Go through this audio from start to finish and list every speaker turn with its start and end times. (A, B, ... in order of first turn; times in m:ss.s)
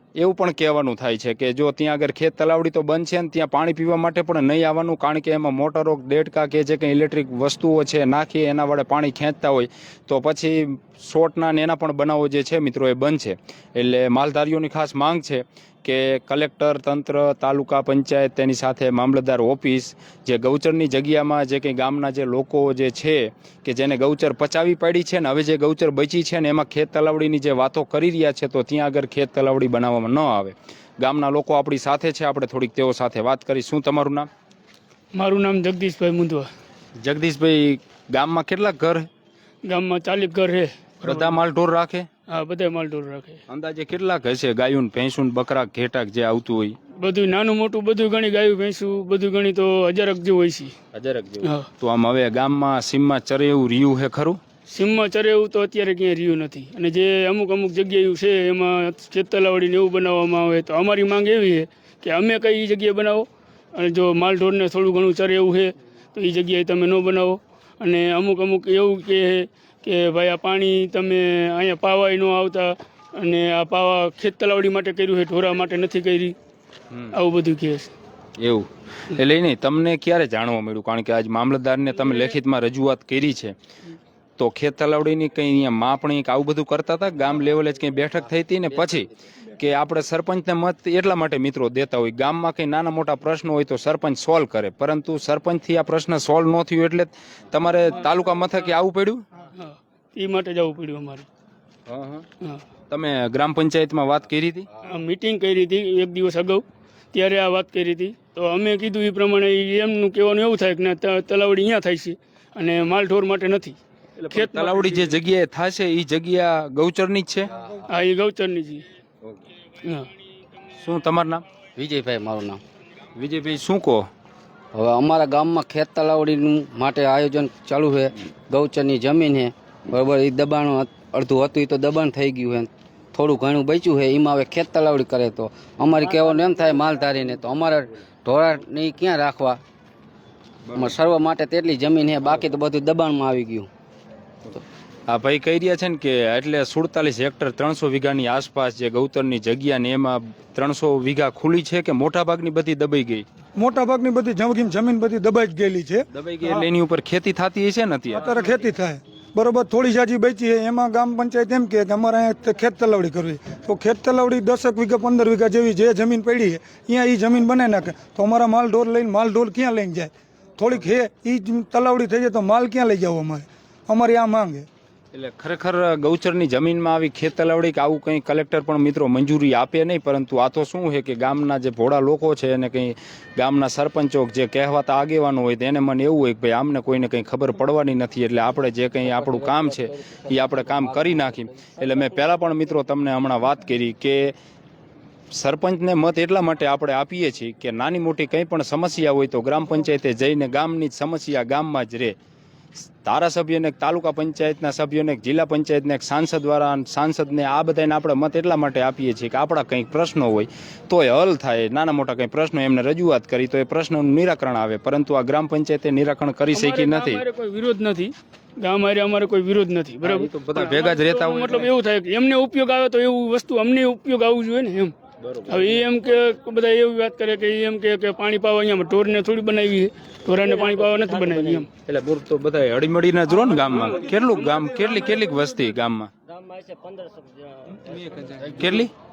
0:00.2-0:34.3 A
0:35.2-0:36.5 B
0:37.0-0:39.1 A
0:39.7-0:41.4 B
0:41.0-0:42.1 A
0:42.3-0:43.4 B
0:43.5-0:46.8 A
0:47.0-0:50.7 B
0:50.9-0:54.4 A
0:54.7-1:16.4 B
1:16.9-1:17.2 A
1:17.1-1:17.9 B
1:18.4-1:23.6 A
1:24.4-1:39.2 A
1:39.6-1:41.3 B
1:41.9-1:42.3 A
1:42.9-1:44.7 A
1:44.8-1:53.8 B
1:54.2-1:57.5 A
1:54.3-1:55.2 B
1:57.9-1:58.8 B
1:59.8-2:00.1 B
2:00.7-2:01.4 A
2:01.8-2:02.6 C
2:03.2-2:04.1 A
2:04.7-2:19.6 C
2:20.7-2:23.7 C
2:24.5-2:33.2 A
2:33.6-2:36.7 D
2:36.1-2:38.4 A
2:38.1-2:54.7 D
2:55.1-3:14.4 A
3:15.3-3:22.2 A
3:22.8-3:37.2 A
3:36.5-3:44.9 B
3:40.0-3:41.7 A
3:45.2-3:45.9 A
3:45.5-3:51.7 B
3:50.4-3:51.7 E
3:51.9-3:56.1 A
3:56.3-3:58.7 E
3:58.0-3:58.9 A